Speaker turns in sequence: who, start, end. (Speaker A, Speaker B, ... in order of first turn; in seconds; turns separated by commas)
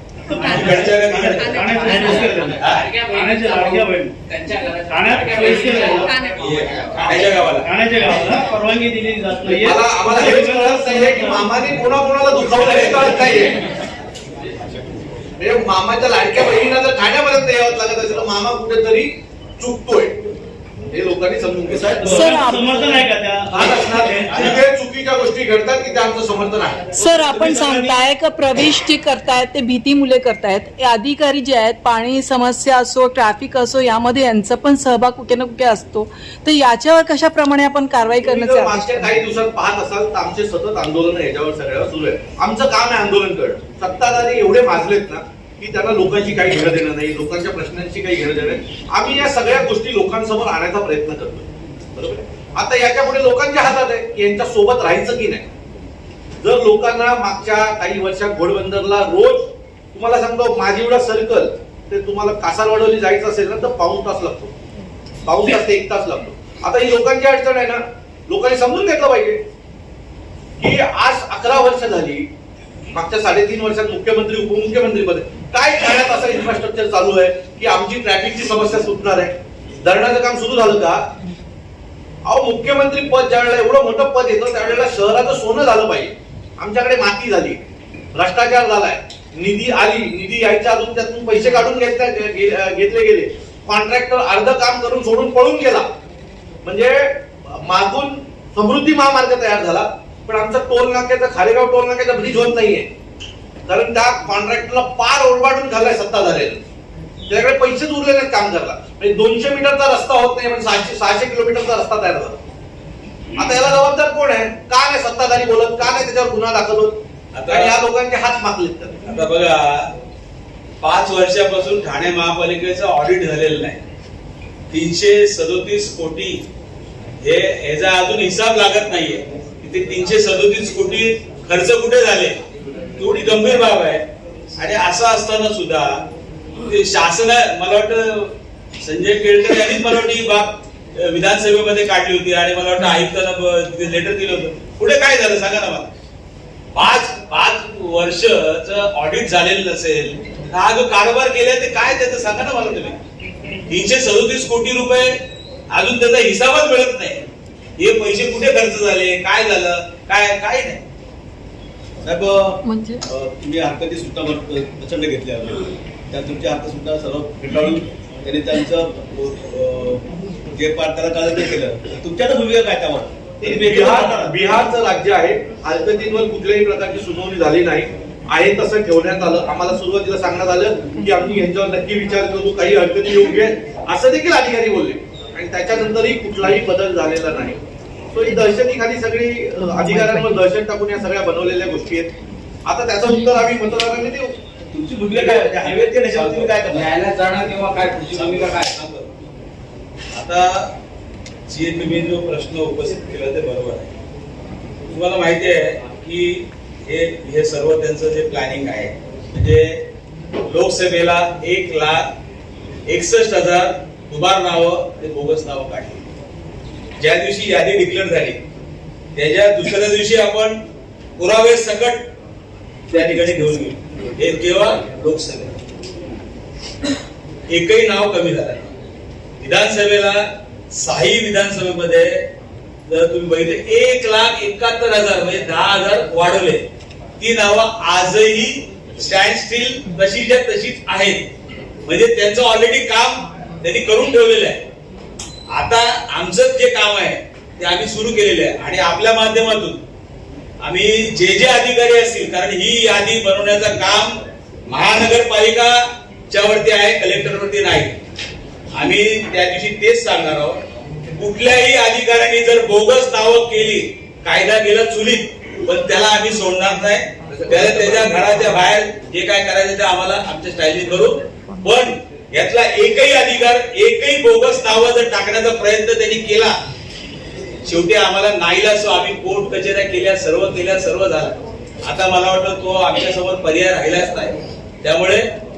Speaker A: 0.2-4.1, Speaker B: 0.5-1.7, Speaker C: 1.6-7.3, Speaker B: 2.5-2.9, Speaker A: 4.9-6.3, Speaker B: 6.3-7.7, Speaker A: 7.6-11.7, Speaker D: 9.5-13.6, Speaker D: 15.4-20.2, Speaker D: 20.9-22.6, Speaker A: 21.7-24.6, Speaker E: 22.1-22.9, Speaker F: 22.2-22.4, Speaker D: 23.5-26.9, Speaker E: 26.9-39.2, Speaker A: 27.0-28.1, Speaker D: 38.2-55.5, Speaker D: 56.4-64.5, Speaker D: 65.2-69.4, Speaker D: 70.6-72.3, Speaker D: 72.9-79.3, Speaker D: 79.8-81.1, Speaker D: 82.2-87.6, Speaker D: 88.1-95.9, Speaker D: 96.6-102.9, Speaker D: 103.7-106.6, Speaker D: 107.3-112.4, Speaker D: 113.3-119.0, Speaker B: 117.3-117.7, Speaker B: 119.1-119.9, Speaker B: 120.8-123.8, Speaker B: 124.7-126.4, Speaker B: 127.2-132.3, Speaker B: 133.0-134.0, Speaker B: 134.6-136.0, Speaker B: 136.6-145.9, Speaker B: 146.7-153.0, Speaker B: 153.7-155.1, Speaker B: 155.7-157.2, Speaker B: 157.8-160.8, Speaker F: 162.0-174.4, Speaker E: 162.7-163.0, Speaker D: 173.4-187.6, Speaker D: 188.1-192.1, Speaker D: 192.7-194.3, Speaker F: 194.7-197.0, Speaker C: 195.1-198.8, Speaker B: 196.1-196.5, Speaker B: 198.1-199.1, Speaker B: 200.1-200.7, Speaker B: 201.5-203.9, Speaker B: 204.9-209.8, Speaker B: 210.4-212.1, Speaker B: 212.8-216.0, Speaker B: 217.0-218.4, Speaker B: 219.1-220.6, Speaker B: 221.2-222.1, Speaker B: 222.9-225.6, Speaker B: 227.5-228.7, Speaker B: 229.4-232.2, Speaker B: 232.9-236.6, Speaker B: 237.2-241.2, Speaker B: 241.8-244.6, Speaker B: 245.5-249.8, Speaker B: 250.6-254.1, Speaker B: 254.7-258.0, Speaker B: 258.7-260.6, Speaker B: 261.1-276.5, Speaker D: 267.3-268.4, Speaker B: 277.6-285.2